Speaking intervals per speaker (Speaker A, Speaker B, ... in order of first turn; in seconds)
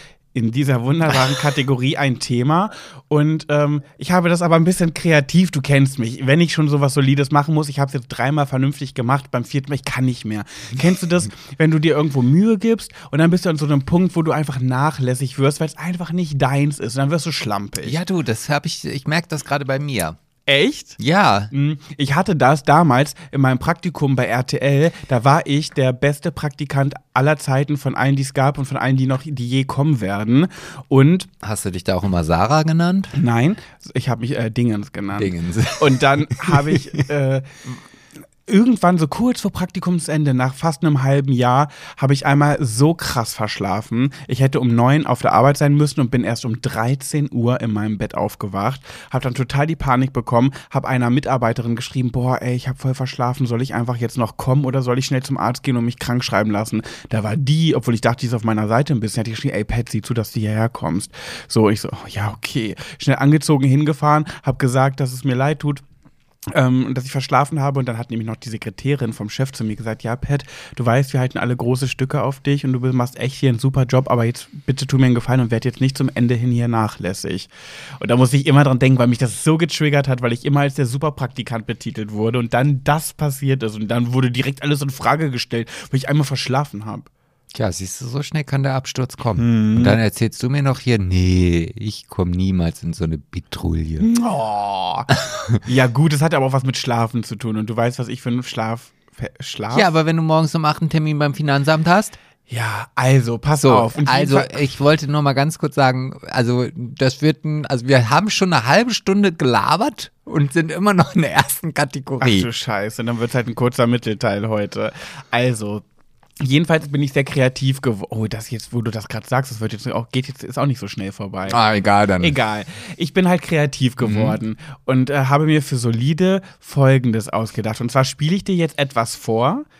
Speaker A: 0.3-18.0, 20.5-21.0, 21.5-31.3, 33.1-37.8, 38.5-65.8, 66.5-87.1, 89.4-90.0, 94.0-99.9, 102.5-104.7, 112.2-115.8, 116.4-121.6, 122.2-129.7
Speaker B: 17.8-20.2, 21.0-21.5, 31.4-33.1, 35.2-37.0, 87.5-94.1, 99.7-102.2, 103.6-112.5, 121.5-122.4, 124.0-124.4